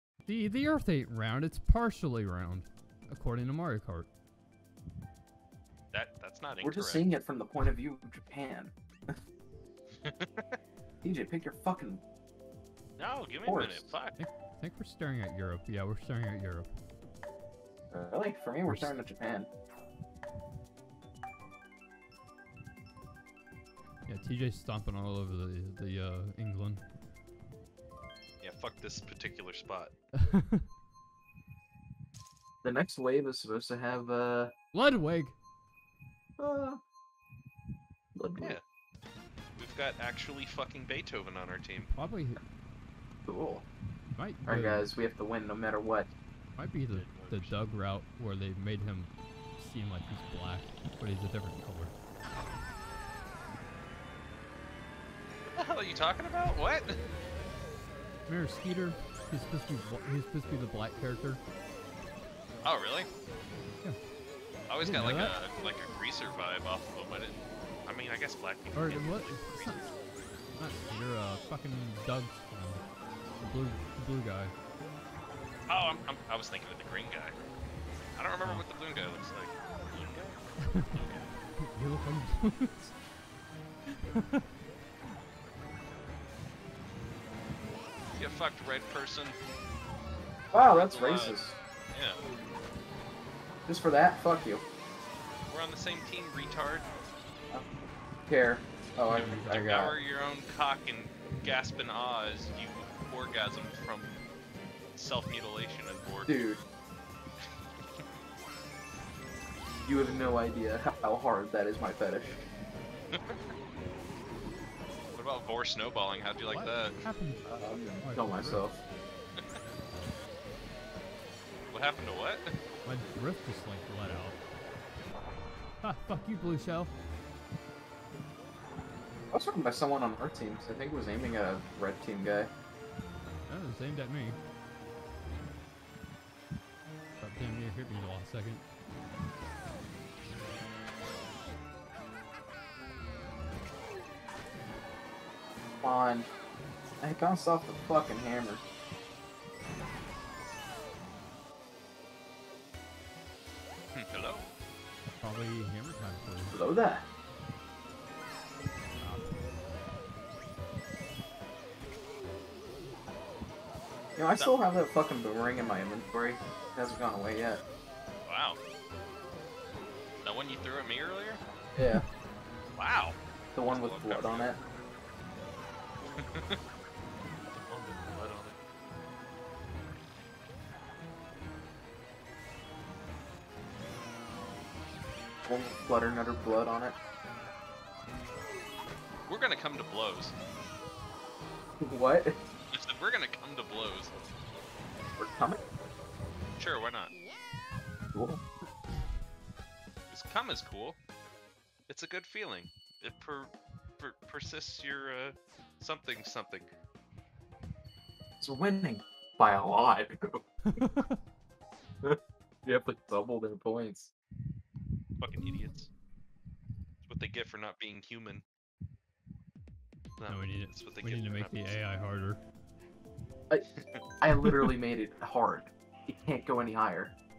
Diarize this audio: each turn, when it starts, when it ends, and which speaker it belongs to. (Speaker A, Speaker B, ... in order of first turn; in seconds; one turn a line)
Speaker A: 0.3-4.1
Speaker B: 5.9-7.1
Speaker C: 6.6-9.2
Speaker B: 10.0-10.6
Speaker C: 11.0-12.0
Speaker B: 13.0-14.2
Speaker C: 13.4-13.9
Speaker A: 14.2-16.7
Speaker C: 17.9-19.5
Speaker A: 18.6-18.9
Speaker A: 24.1-26.8
Speaker B: 28.4-29.9
Speaker A: 30.2-30.6
Speaker C: 32.6-34.5
Speaker A: 34.7-35.4
Speaker C: 36.4-36.8
Speaker C: 38.1-38.6
Speaker B: 39.6-41.9
Speaker A: 41.8-42.4
Speaker C: 43.2-43.7
Speaker A: 44.1-44.9
Speaker C: 44.5-46.1
Speaker A: 46.6-51.9
Speaker B: 46.9-47.6
Speaker B: 55.5-57.0
Speaker A: 58.3-61.4
Speaker B: 62.6-63.1
Speaker B: 64.7-69.9
Speaker A: 64.8-65.4
Speaker A: 68.7-69.9
Speaker A: 70.6-72.8
Speaker A: 73.4-74.5
Speaker B: 75.7-77.4
Speaker B: 78.2-81.3
Speaker A: 80.7-81.0
Speaker A: 81.6-83.0
Speaker A: 84.1-84.4
Speaker B: 88.2-89.4
Speaker C: 90.5-91.6
Speaker B: 90.5-91.4
Speaker B: 91.9-92.2
Speaker C: 93.7-94.6
Speaker B: 95.5-96.9
Speaker C: 98.3-100.0
Speaker A: 99.1-99.8
Speaker B: 99.1-104.2
Speaker B: 104.9-106.4
Speaker C: 106.2-106.6
Speaker C: 109.8-112.4
Speaker B: 113.1-113.4
Speaker B: 115.2-117.0
Speaker A: 116.5-118.7
Speaker C: 117.4-118.8
Speaker B: 121.7-122.5
Speaker A: 122.8-124.4
Speaker A: 125.8-126.9
Speaker C: 129.3-132.5
Speaker A: 133.5-134.4
Speaker A: 137.2-138.6
Speaker C: 145.8-146.3
Speaker C: 147.0-148.6
Speaker B: 153.9-154.5
Speaker A: 155.2-156.5
Speaker C: 156.5-157.1
Speaker A: 159.0-159.3
Speaker C: 164.2-167.6
Speaker B: 168.2-168.6
Speaker B: 170.2-171.4
Speaker C: 171.8-172.0
Speaker A: 171.8-172.1
Speaker B: 172.8-174.6
Speaker C: 173.5-174.6
Speaker B: 176.2-176.6
Speaker B: 177.5-178.6
Speaker C: 185.4-186.9
Speaker B: 189.3-190.3
Speaker C: 191.8-192.3
Speaker B: 192.7-194.1
Speaker C: 195.2-195.6
Speaker B: 196.6-197.1
Speaker C: 198.1-198.4
Speaker B: 200.1-201.0
Speaker B: 201.9-206.7
Speaker C: 208.4-210.4
Speaker A: 210.7-211.2
Speaker C: 212.0-214.1
Speaker B: 215.2-215.9
Speaker B: 217.0-218.4
Speaker B: 220.2-221.8
Speaker A: 220.3-222.4
Speaker C: 223.5-227.1
Speaker B: 223.8-224.0